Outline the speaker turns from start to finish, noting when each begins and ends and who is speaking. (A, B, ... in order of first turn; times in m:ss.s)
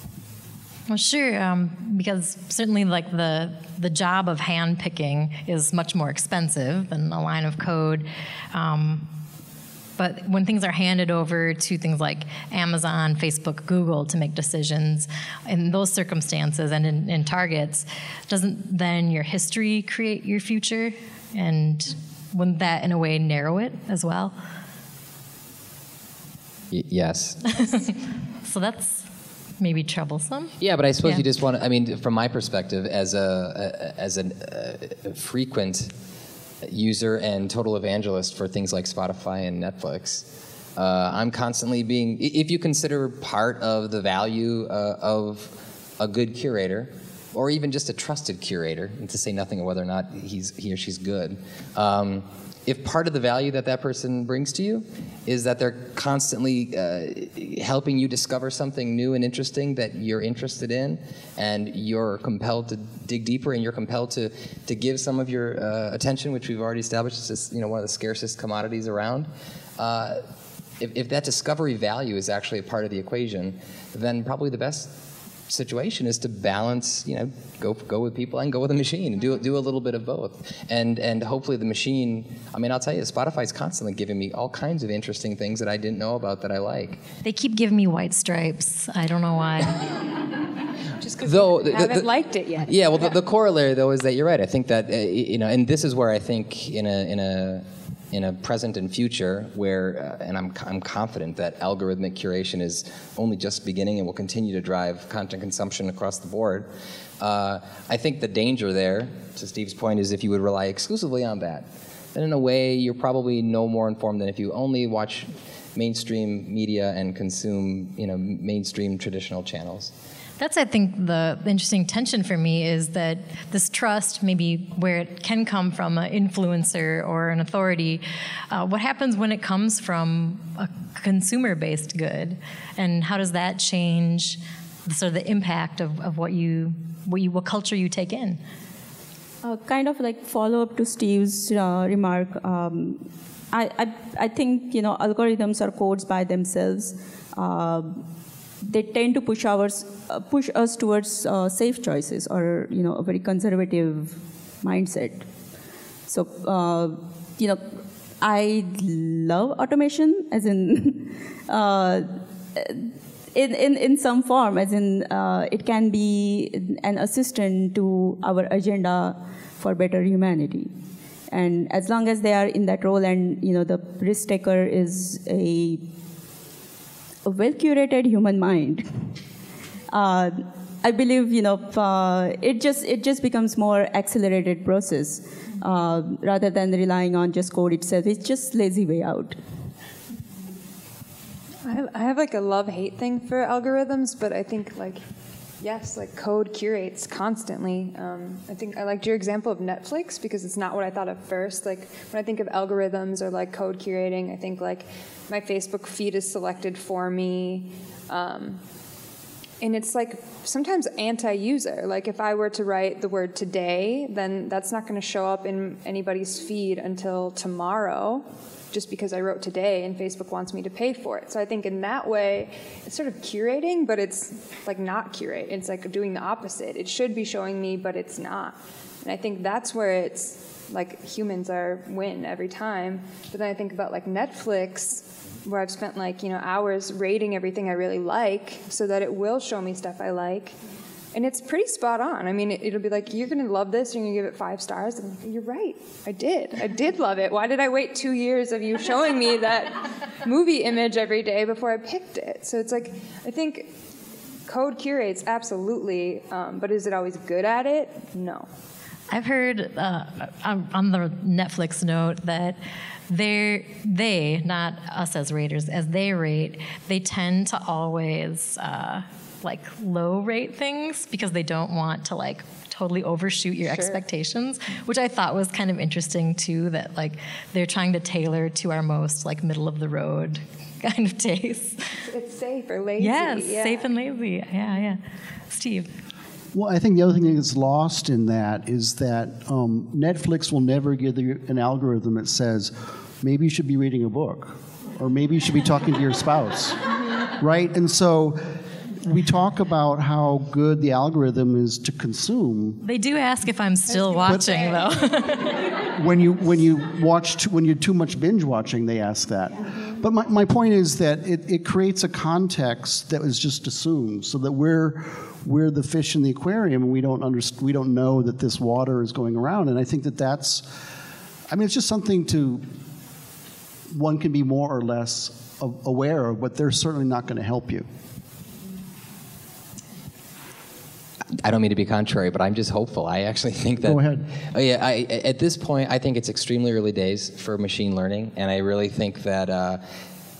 0:00.9-0:09.1 A
0:10.0-0:24.3 A
0:26.7-0:27.7 B
0:27.5-0:29.1 A
0:29.6-0:31.2 A
0:30.6-0:35.9 B
0:36.6-0:40.2 B
0:40.8-1:10.2 B
1:10.8-1:14.9 B
1:15.5-1:27.0 B
1:27.2-1:30.0 A
1:31.0-1:33.2 C
1:31.2-1:32.1 B
1:32.6-1:46.7 B
1:47.2-1:59.9 B
2:00.4-2:18.4 A
2:19.4-2:28.0 D
2:28.6-2:35.2 D
2:36.1-2:37.6 D
2:38.2-2:50.7 D
2:51.3-2:55.8 D
2:57.2-2:59.1 D
2:59.9-3:09.4 D
3:11.6-3:15.0 C
3:15.6-3:28.6 C
3:29.6-4:00.6 C
4:01.1-4:13.7 C
4:14.5-4:18.5 C
4:19.1-4:22.6 A
4:23.1-4:41.8 A
4:33.6-4:34.0 C
4:42.0-4:43.9 C
4:43.0-4:45.9 A
4:46.5-4:58.4 E
4:59.0-5:02.8 E
5:02.8-5:05.7 A
5:03.9-5:04.7 C
5:04.2-5:04.6 E
5:05.9-5:20.6 E
5:21.5-5:22.6 E
5:23.9-5:27.8 E
5:31.4-5:39.8 B
5:33.8-5:34.2 E